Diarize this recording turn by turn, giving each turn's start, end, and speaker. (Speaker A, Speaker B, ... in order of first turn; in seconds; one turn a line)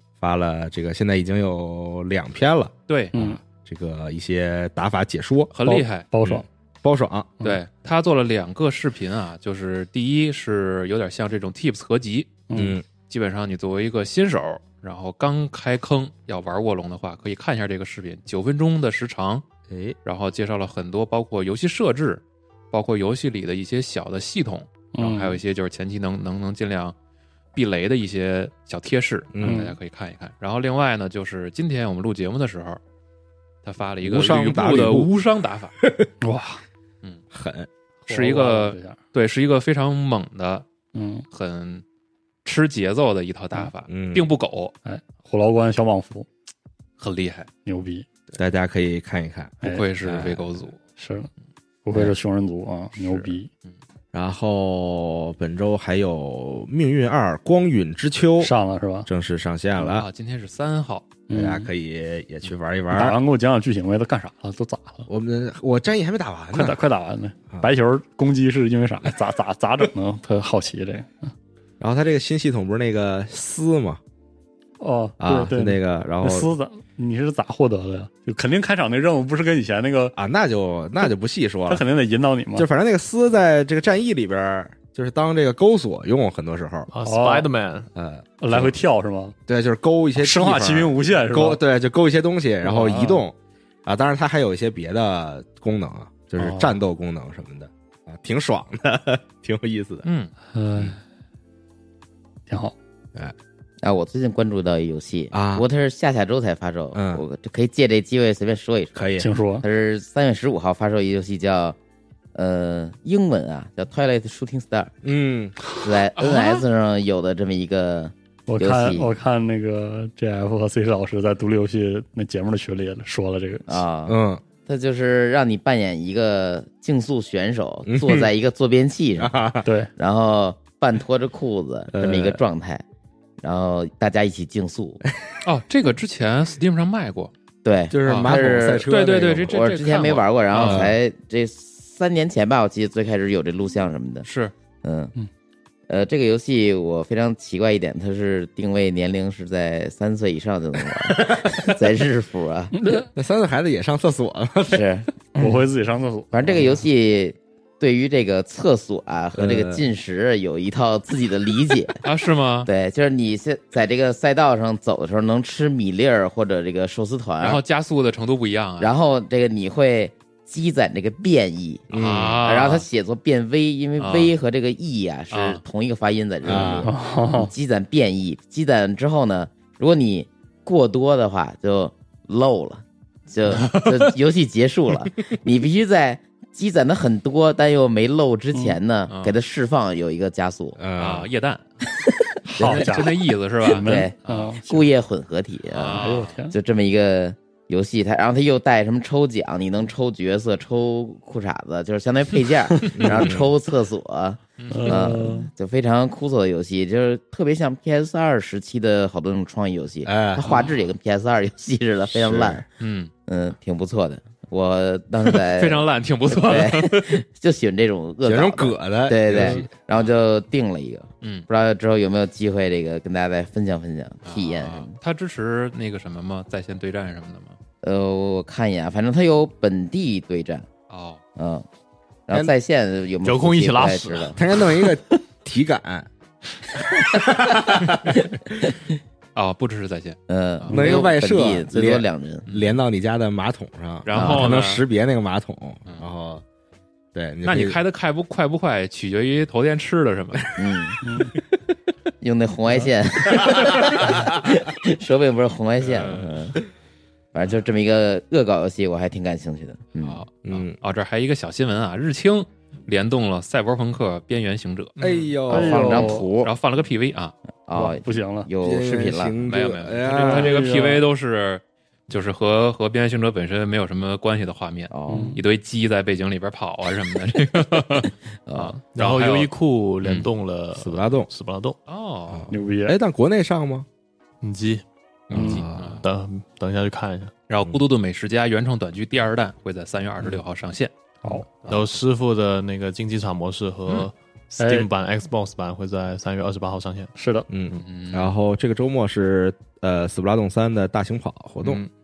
Speaker A: 0.2-5.5
Speaker B: 2.9-3.1
Speaker C: 3.1-3.4
Speaker B: 5.5-6.0
Speaker C: 5.6-6.4
Speaker A: 6.2-7.3
Speaker B: 7.4-12.4
Speaker C: 12.5-12.8
Speaker A: 12.5-12.8
Speaker B: 13.0-19.4
Speaker A: 19.7-19.9
Speaker B: 20.0-26.9
Speaker C: 24.9-25.4
Speaker B: 27.5-32.8
Speaker A: 29.3-29.6
Speaker C: 29.4-29.8
Speaker B: 33.6-35.7
Speaker A: 34.0-35.1
Speaker A: 35.8-36.1
Speaker C: 36.2-36.6
Speaker A: 37.3-37.7
Speaker C: 38.1-39.0
Speaker B: 38.1-40.6
Speaker C: 40.9-41.2
Speaker B: 41.3-41.8
Speaker B: 42.4-44.7
Speaker A: 43.9-44.3
Speaker C: 44.8-46.3
Speaker B: 47.0-47.5
Speaker C: 47.6-48.0
Speaker A: 48.4-50.5
Speaker C: 49.6-49.9
Speaker B: 49.6-50.8
Speaker C: 51.0-51.3
Speaker C: 51.8-53.5
Speaker B: 53.0-53.8
Speaker A: 54.1-58.5
Speaker C: 58.4-59.1
Speaker A: 59.0-60.0
Speaker B: 59.8-61.1
Speaker C: 61.3-61.7
Speaker A: 61.3-63.2
Speaker C: 62.9-65.1
Speaker A: 65.1-66.8
Speaker C: 66.5-71.3
Speaker A: 71.8-74.0
Speaker C: 74.8-80.1
Speaker A: 75.2-76.5
Speaker A: 80.1-81.8
Speaker C: 81.7-82.7
Speaker A: 82.5-86.9
Speaker D: 86.9-87.9
Speaker C: 87.0-87.5
Speaker A: 87.9-88.7
Speaker C: 88.4-89.3
Speaker A: 89.5-93.3
Speaker C: 90.2-91.6
Speaker C: 92.6-93.2
Speaker A: 93.8-100.0
Speaker C: 96.4-96.7
Speaker B: 100.0-100.3
Speaker C: 100.5-101.0
Speaker C: 102.5-102.7
Speaker E: 103.8-111.8
Speaker A: 105.3-105.7
Speaker A: 106.9-107.2
Speaker A: 108.9-109.3
Speaker C: 109.2-109.6
Speaker E: 112.3-114.9
Speaker A: 115.0-115.6
Speaker E: 115.8-119.1
Speaker B: 116.2-116.7
Speaker C: 118.5-123.8
Speaker E: 123.7-132.8
Speaker A: 124.0-124.4
Speaker A: 127.8-128.3
Speaker A: 129.2-129.7
Speaker C: 129.6-129.9
Speaker A: 131.9-132.4
Speaker E: 133.4-135.0
Speaker B: 135.4-137.3
Speaker E: 137.6-138.9
Speaker A: 137.9-139.6
Speaker B: 138.0-140.9
Speaker E: 139.5-144.3
Speaker A: 140.5-141.0
Speaker B: 144.2-144.5
Speaker E: 144.8-145.1
Speaker E: 145.9-152.7
Speaker A: 151.1-151.5
Speaker C: 152.8-153.1
Speaker A: 153.1-154.8
Speaker E: 154.7-155.6
Speaker C: 155.4-156.8
Speaker E: 156.3-162.0
Speaker A: 159.3-159.9
Speaker B: 162.0-162.7
Speaker E: 162.7-167.6
Speaker B: 167.4-168.9
Speaker E: 168.8-171.9
Speaker A: 171.9-172.4
Speaker B: 171.9-172.8
Speaker E: 172.4-190.8
Speaker B: 174.0-174.3
Speaker B: 175.3-175.6
Speaker A: 176.4-176.9
Speaker C: 176.8-177.5
Speaker B: 183.5-184.1
Speaker B: 189.1-189.3
Speaker A: 190.8-191.3
Speaker B: 191.0-191.6
Speaker E: 192.0-212.6
Speaker C: 192.4-193.2
Speaker B: 192.6-194.5
Speaker C: 193.7-194.9
Speaker B: 195.7-196.4
Speaker C: 196.0-196.5
Speaker A: 202.9-203.5
Speaker B: 204.6-205.1
Speaker C: 204.7-205.5
Speaker A: 210.0-210.5
Speaker B: 210.4-210.7
Speaker A: 212.1-212.6
Speaker B: 212.8-213.1
Speaker E: 213.2-224.9
Speaker B: 215.2-217.2
Speaker A: 218.2-219.7
Speaker B: 219.3-220.1
Speaker B: 221.2-221.5
Speaker B: 224.2-227.6
Speaker E: 227.8-230.7
Speaker B: 230.9-231.2
Speaker E: 231.3-231.6
Speaker E: 232.3-234.4
Speaker D: 233.2-234.4
Speaker A: 234.3-236.1
Speaker A: 236.8-238.2
Speaker B: 239.3-241.1
Speaker E: 240.3-242.4
Speaker A: 240.7-246.4
Speaker B: 242.4-242.8
Speaker B: 244.0-244.8
Speaker E: 244.1-244.6
Speaker A: 247.1-247.8
Speaker B: 247.4-250.4
Speaker E: 250.6-251.0
Speaker C: 251.0-251.3
Speaker E: 252.2-256.6
Speaker B: 255.8-256.2
Speaker E: 257.3-260.2
Speaker B: 260.0-265.0
Speaker A: 260.4-260.8
Speaker D: 265.0-265.4
Speaker A: 265.0-266.0
Speaker C: 265.5-266.3
Speaker E: 265.5-266.5
Speaker B: 265.9-267.3
Speaker E: 267.7-269.4
Speaker C: 267.7-268.5
Speaker A: 268.6-270.7
Speaker B: 269.4-280.3
Speaker C: 270.1-271.0
Speaker E: 274.9-275.4
Speaker C: 275.1-275.4
Speaker E: 278.5-278.8
Speaker D: 278.9-281.8
Speaker A: 280.8-281.3
Speaker B: 281.9-282.5
Speaker A: 282.3-283.9
Speaker C: 282.5-283.0
Speaker D: 284.4-284.8
Speaker B: 285.3-286.1
Speaker A: 285.3-286.0
Speaker D: 285.4-287.3
Speaker B: 287.5-290.9
Speaker C: 291.2-291.5
Speaker D: 291.6-297.1
Speaker C: 294.6-294.9
Speaker C: 297.1-297.5
Speaker A: 297.5-301.8
Speaker B: 297.7-298.3